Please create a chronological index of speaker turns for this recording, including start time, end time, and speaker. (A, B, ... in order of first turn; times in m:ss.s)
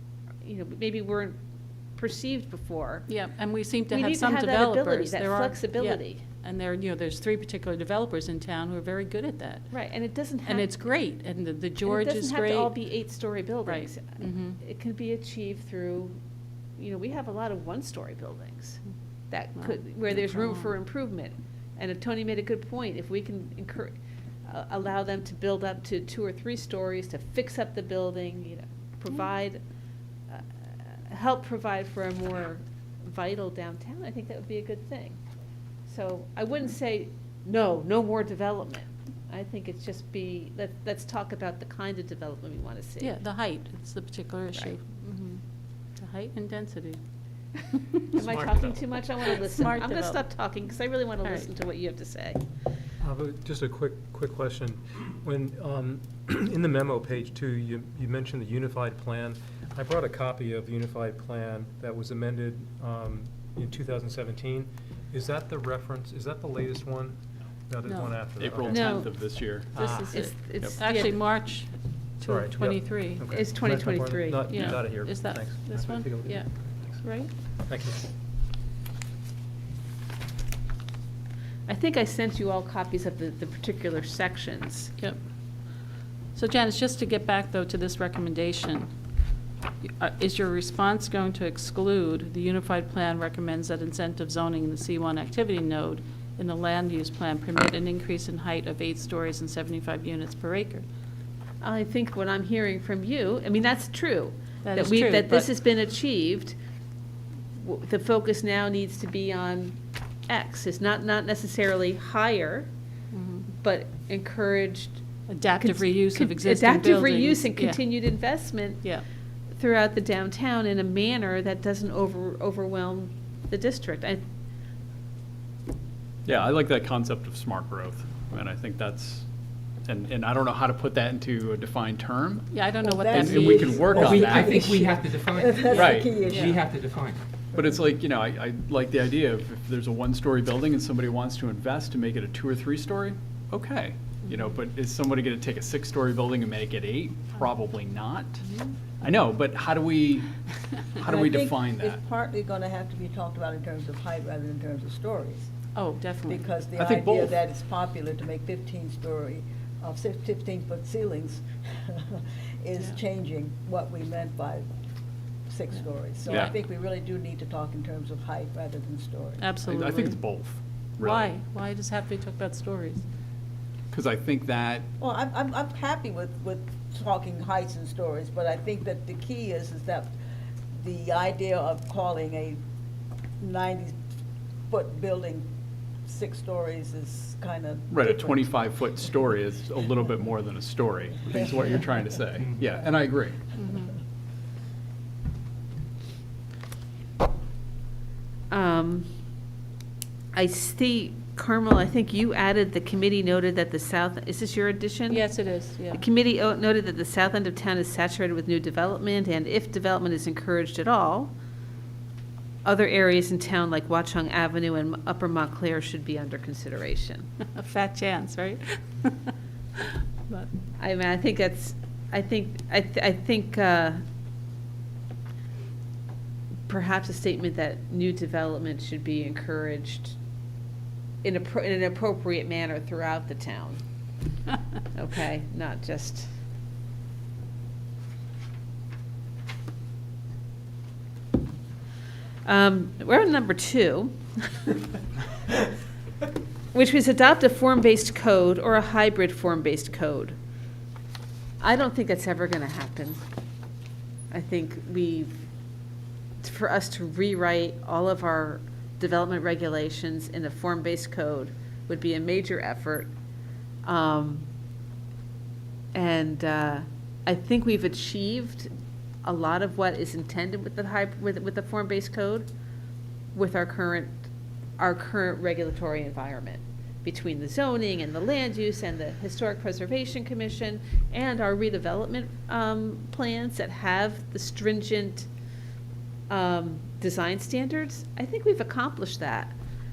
0:00.4-0:01.4 A
0:02.0-0:03.1 A
0:03.1-0:09.7 B
0:03.9-0:06.2 A
0:09.7-0:10.7 A
0:10.4-0:12.7 B
0:11.8-0:16.2 A
0:13.6-0:14.6 B
0:16.8-0:29.6 A
0:19.6-0:20.7 B
0:30.3-0:35.2 A
0:35.9-0:43.1 A
0:43.0-0:45.4 B
0:46.0-0:47.0 B
0:48.1-0:52.4 A
0:49.4-0:50.2 B
0:51.2-0:51.5 B
0:53.0-1:07.2 C
1:07.7-1:09.1 C
1:07.8-1:08.2 B
1:08.4-1:09.7 D
1:08.7-1:09.1 A
1:09.7-1:10.3 C
1:09.8-1:11.2 A
1:09.9-1:13.3 B
1:12.2-1:17.0 C
1:13.3-1:14.8 A
1:14.5-1:16.5 B
1:17.0-1:17.3 B
1:17.6-1:18.1 C
1:21.7-1:24.9 A
1:26.3-1:28.9 B
1:29.8-1:40.8 B
1:41.6-1:46.6 A
1:44.6-1:45.5 B
1:47.6-1:49.8 A
1:50.3-1:52.7 A
1:53.1-1:53.5 B
1:53.5-1:55.0 A
1:55.3-1:57.8 B
1:55.6-1:58.8 A
1:59.6-2:04.2 A
2:06.2-2:09.2 D
2:09.9-2:12.5 D
2:12.5-2:13.9 B
2:12.8-2:16.6 E
2:13.1-2:14.7 D
2:13.5-2:17.2 F
2:15.7-2:16.2 D
2:16.3-2:16.6 B
2:17.5-2:28.4 D
2:29.0-2:30.3 D
2:30.9-2:32.0 D
2:31.0-2:35.5 E
2:35.8-2:36.4 B
2:36.3-2:44.7 E
2:36.8-2:37.3 D
2:45.5-2:49.5 E
2:49.4-2:50.2 B
2:49.6-2:51.3 D
2:51.0-2:53.0 B
2:53.9-2:54.9 D
2:55.0-3:00.2 E
3:00.8-3:02.6 E
3:03.4-3:04.0 E
3:04.7-3:05.5 E
3:06.1-3:08.5 E
3:07.9-3:13.4 D
3:13.6-3:13.9 B
3:18.5-3:19.1 A
3:20.3-3:25.2 A
3:25.1-3:26.0 B
3:25.9-3:31.3 A
3:32.6-3:37.3 A
3:37.6-3:39.3 B
3:40.8-3:44.0 A
3:46.7-3:50.2 A
3:51.2-3:53.8 A
3:54.9-3:56.3 A
4:02.4-4:04.7 A
4:06.7-4:10.4 A
4:11.6-4:13.2 A
4:14.3-4:15.3 A
4:16.4-4:23.1 A
4:23.8-4:24.5 A
4:25.9-4:28.7 A
4:29.2-4:32.5 A
4:33.3-4:34.3 A
4:34.8-4:45.3 A
4:46.3-4:49.5 A